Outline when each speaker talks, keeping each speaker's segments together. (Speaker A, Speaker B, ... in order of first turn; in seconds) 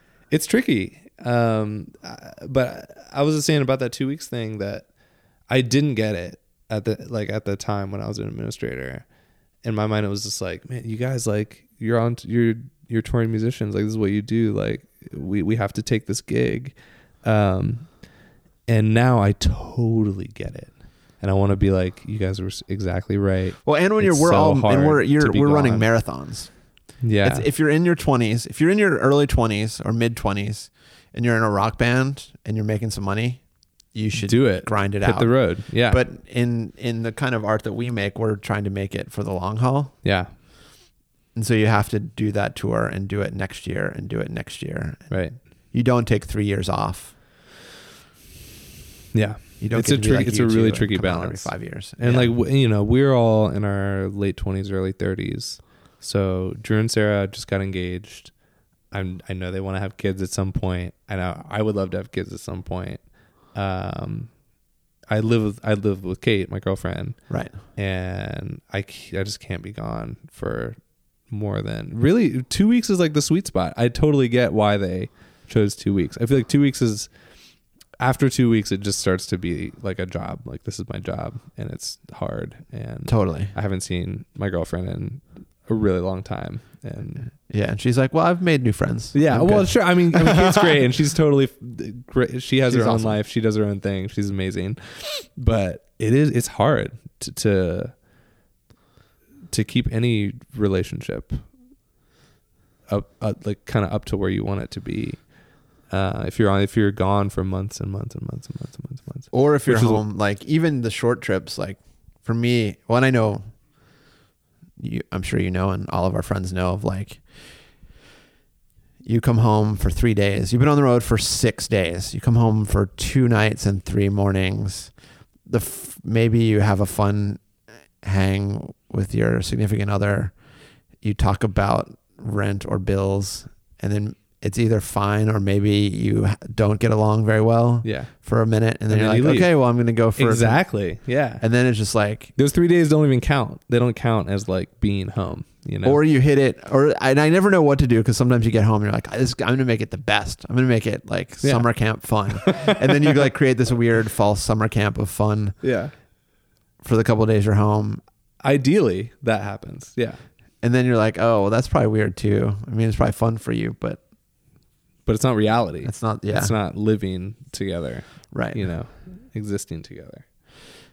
Speaker A: 0.3-9.1, 9.6-27.5, 34.1-36.0, 40.0-40.3, 45.1-45.4, 49.1-58.4, 58.9-77.3, 78.0-87.3, 89.1-98.0, 99.5-101.5, 102.9-110.0, 137.8-141.5, 142.3-146.0, 151.4-153.2, 155.6-155.9, 158.4-160.2, 165.0-170.3
Speaker B: 23.6-40.5, 41.3-47.2, 49.6-52.3, 67.3-67.6, 83.1-83.5, 87.4-90.8, 92.7-93.2, 109.3-114.0, 114.8-117.7, 119.0-142.3, 145.8-155.8, 156.8-158.0, 160.6-164.0, 165.8-166.6, 168.3-168.7